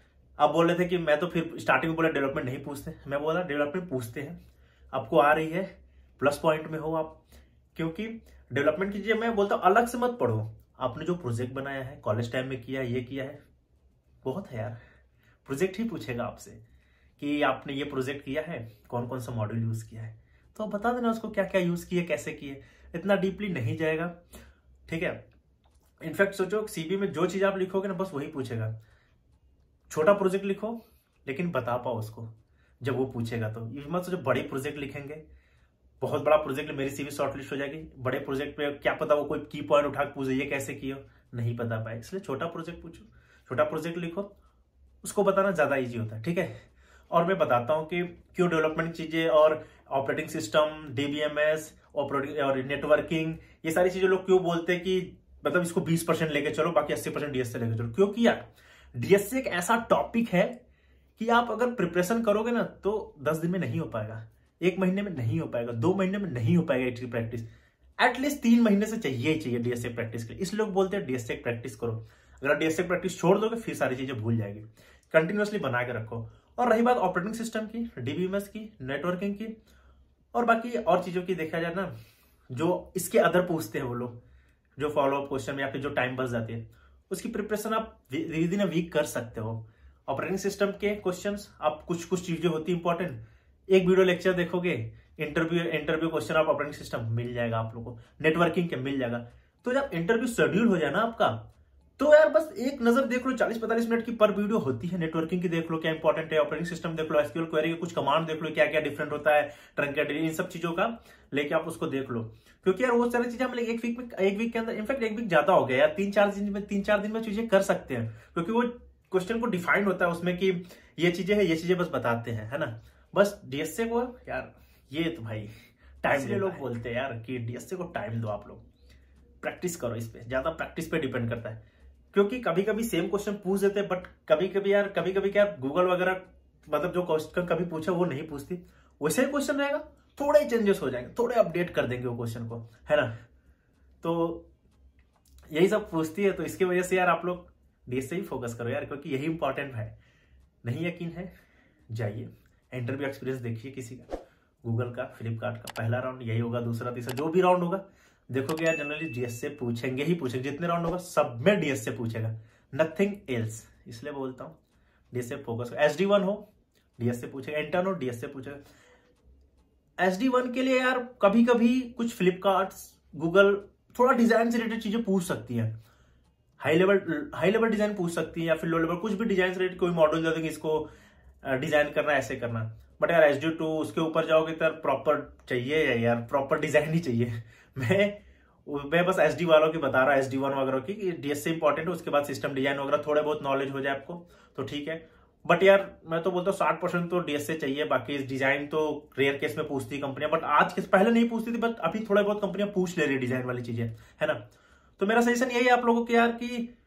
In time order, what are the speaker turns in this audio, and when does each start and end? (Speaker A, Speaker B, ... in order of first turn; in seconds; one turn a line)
Speaker A: 0.4-4.4
Speaker A: 4.9-7.2
Speaker A: 7.8-13.4
Speaker A: 14.2-14.8
Speaker A: 15.4-16.6
Speaker A: 17.2-24.1
Speaker A: 24.9-25.2
Speaker A: 26.0-28.7
Speaker A: 29.9-32.3
Speaker A: 32.8-35.2
Speaker A: 36.0-44.3
Speaker A: 45.0-46.5
Speaker A: 47.1-60.5
Speaker A: 61.2-67.5
Speaker A: 68.0-79.5
Speaker A: 80.3-81.9
Speaker A: 82.5-84.2
Speaker A: 84.8-101.4
Speaker A: 102.0-125.5
Speaker A: 126.0-128.6
Speaker A: 129.4-131.6
Speaker A: 132.1-143.1
Speaker A: 144.0-144.5
Speaker A: 145.5-149.9
Speaker A: 150.6-151.3
Speaker A: 151.9-154.1
Speaker A: 154.6-164.6
Speaker A: 165.1-166.5
Speaker A: 167.0-168.6
Speaker A: 170.0-175.7
Speaker A: 176.6-180.9
Speaker A: 181.4-204.4
Speaker A: 205.0-206.7